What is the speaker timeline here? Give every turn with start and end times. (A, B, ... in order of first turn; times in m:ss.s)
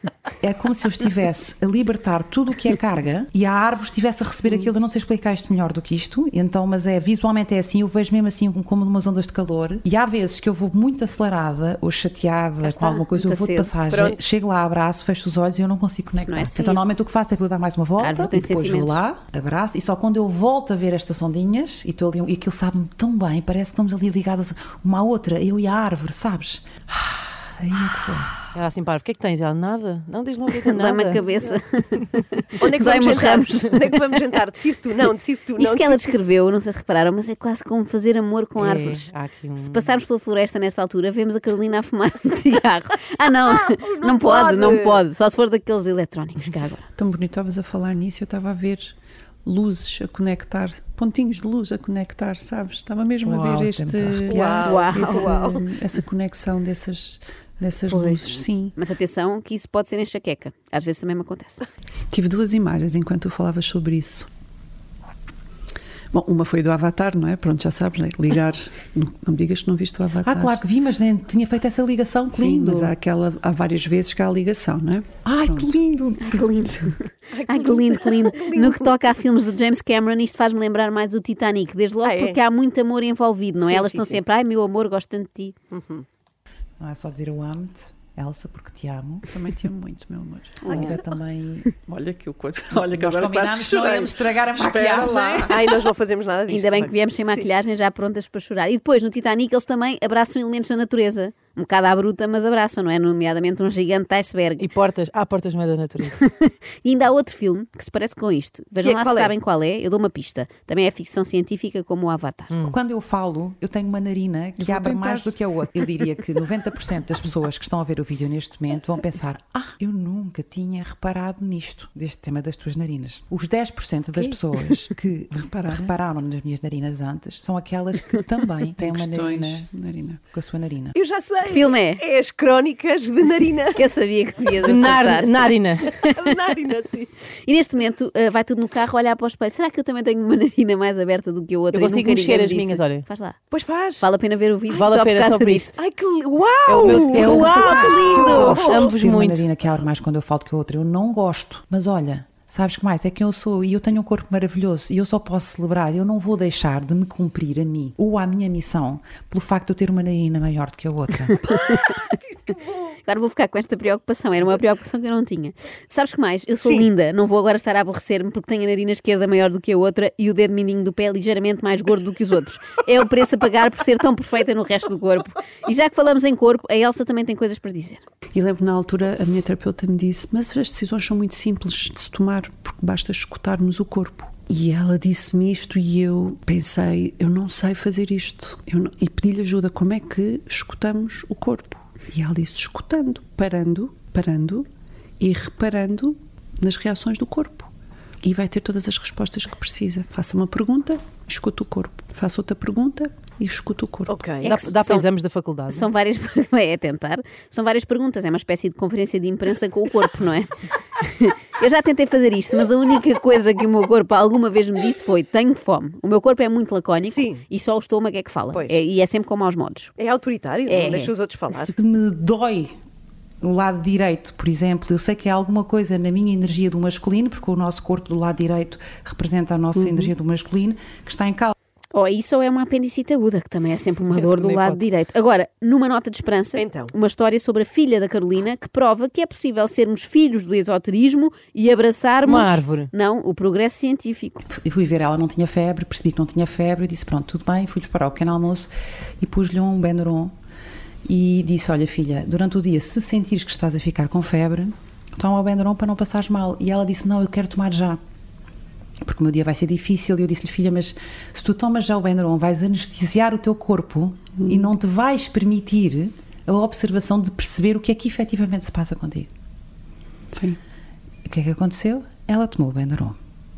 0:00.4-0:28.3 A
0:12.6-0:13.7 B
0:13.9-0:14.2 C
0:16.2-0:16.8 B
0:18.0-0:19.0 B
0:28.5-0:31.2 D
0:30.6-0:33.9 B
0:31.3-0:31.6 C
0:32.6-0:36.1 C
0:35.6-0:46.8 B
0:38.6-0:39.9 D
0:43.4-0:45.0 C
0:47.0-0:58.7 E
0:53.2-0:54.4 A
0:54.3-0:55.6 C
0:54.4-0:55.3 B
0:57.9-1:01.6 B
1:02.1-1:04.3 E
1:06.1-1:10.6 E
1:10.2-1:12.9 A
1:12.3-1:15.8 E
1:15.2-1:16.8 A
1:16.2-1:25.5 B
1:17.3-1:19.0 C
1:22.0-1:22.4 C
1:23.6-1:24.2 C
1:25.7-1:26.0 C
1:26.8-1:29.3 A
1:29.3-1:30.9 E
1:30.6-1:30.9 B
1:30.6-1:31.7 A
1:31.9-1:35.6 E
1:32.7-1:35.6 A
1:35.4-1:37.4 C
1:36.5-1:44.6 B
1:44.6-1:46.2 D
1:46.2-1:52.5 B
1:48.8-1:49.3 C
1:52.5-1:52.8 D
1:52.6-2:09.7 A
1:54.6-1:55.4 E
2:05.4-2:05.9 E
2:08.8-2:10.2 E
2:10.3-2:11.0 A
2:10.9-2:13.9 C
2:11.4-2:12.0 B
2:13.8-2:16.1 B
2:14.6-2:16.0 D
2:15.9-2:17.1 C
2:17.4-2:23.4 B
2:21.7-2:23.0 D
2:23.5-2:24.1 C
2:24.0-2:25.8 B
2:24.7-2:25.7 D
2:25.8-2:28.9 C
2:26.7-2:29.4 D
2:26.8-2:41.4 A
2:26.9-2:27.9 B
2:41.5-2:41.8 B
2:41.5-2:42.6 C
2:42.8-2:58.0 B
2:58.3-3:14.7 E
3:15.2-3:17.7 E
3:18.2-3:24.2 E
3:24.1-3:24.6 C
3:24.4-3:25.1 B
3:24.4-3:25.9 D
3:25.7-3:39.9 B
3:37.0-3:37.4 C
3:38.5-3:38.8 C
3:40.0-3:41.7 C
3:40.7-3:41.1 B
3:41.7-3:42.7 A
3:43.4-3:51.5 A
3:49.8-3:50.1 E
3:51.9-4:04.5 B
3:54.1-3:54.8 D
3:56.6-3:56.9 C
4:02.2-4:02.9 D
4:04.5-4:08.7 A
4:09.2-4:10.3 A
4:11.0-4:18.0 A
4:19.0-4:29.3 A
4:24.4-4:24.7 E
4:30.3-4:30.6 E
4:31.2-4:33.2 A